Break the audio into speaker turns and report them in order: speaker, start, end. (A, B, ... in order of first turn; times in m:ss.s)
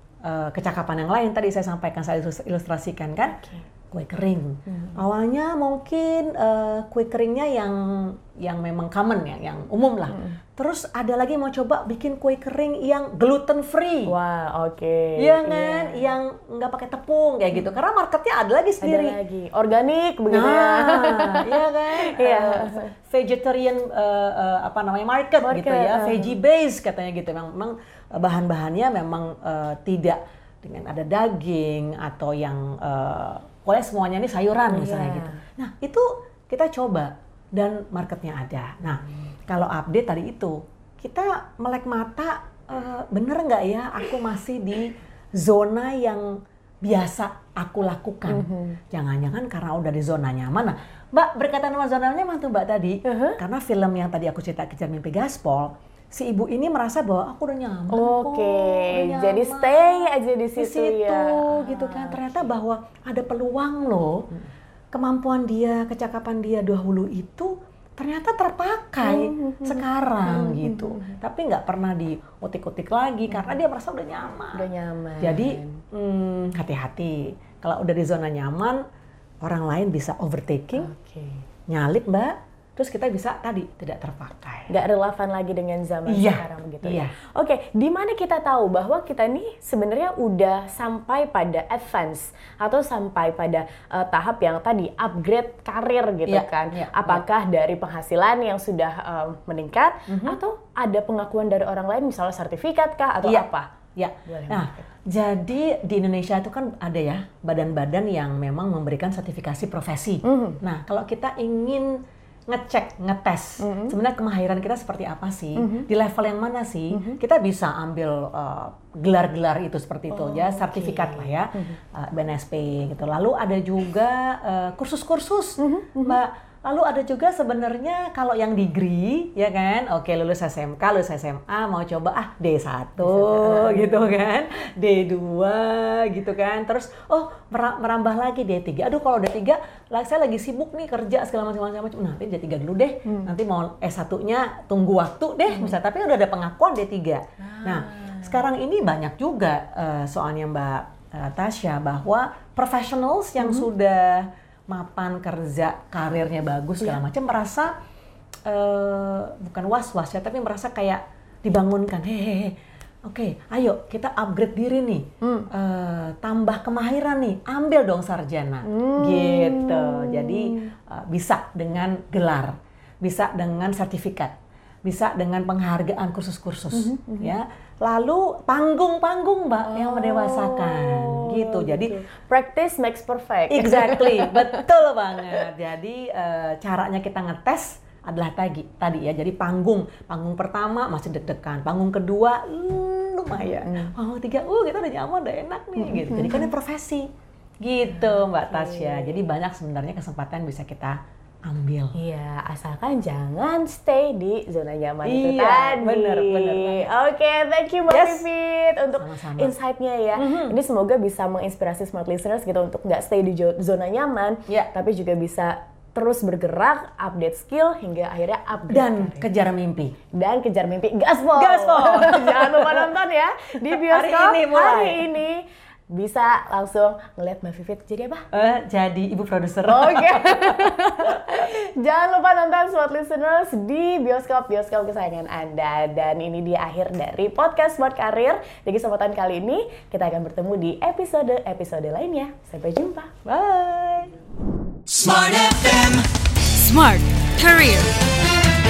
0:00.2-0:14.1 A
0:14.1-0:16.1 B
0:15.2-0:19.2 A
0:18.8-0:22.9 B
0:20.3-1:04.3 A
0:25.4-0:26.4 B
0:34.7-0:35.4 B
0:48.3-0:48.8 B
0:53.0-0:53.4 B
0:57.9-1:02.4 B
1:04.9-1:14.7 A
1:09.0-1:11.2 B
1:14.5-1:15.8 B
1:15.2-1:18.8 A
1:19.4-1:20.9 A
1:20.8-1:21.4 B
1:21.7-1:24.7 A
1:24.7-1:43.7 B
1:26.1-1:27.2 A
1:36.3-1:37.2 A
1:40.1-1:40.4 A
1:43.2-2:37.7 A
1:44.3-1:44.8 B
1:50.2-1:50.6 B
1:53.6-1:54.0 B
1:55.6-1:55.9 B
1:56.9-1:57.2 B
2:00.1-2:01.8 B
2:05.6-2:06.2 B
2:13.0-2:14.3 B
2:23.1-2:23.3 B
2:27.5-2:28.4 B
2:33.4-2:33.7 B
2:38.5-2:54.3 A
2:45.2-2:45.5 B
2:48.6-2:50.7 B
2:54.8-3:02.0 A
2:56.7-2:57.3 B
2:59.7-3:05.5 B
3:03.5-3:17.1 A
3:13.6-3:13.9 B
3:15.8-3:16.5 B
3:17.6-3:22.0 A
3:18.0-3:19.2 B
3:22.0-3:39.3 B
3:25.0-3:26.9 A
3:27.9-3:28.3 A
3:28.9-3:29.5 A
3:30.2-3:30.6 A
3:38.7-3:40.0 A
3:40.1-3:48.2 B
3:41.4-3:43.0 A
3:43.6-3:45.0 A
3:48.3-3:51.2 A
3:49.6-4:03.2 B
4:03.3-4:04.1 A
4:04.9-4:08.0 C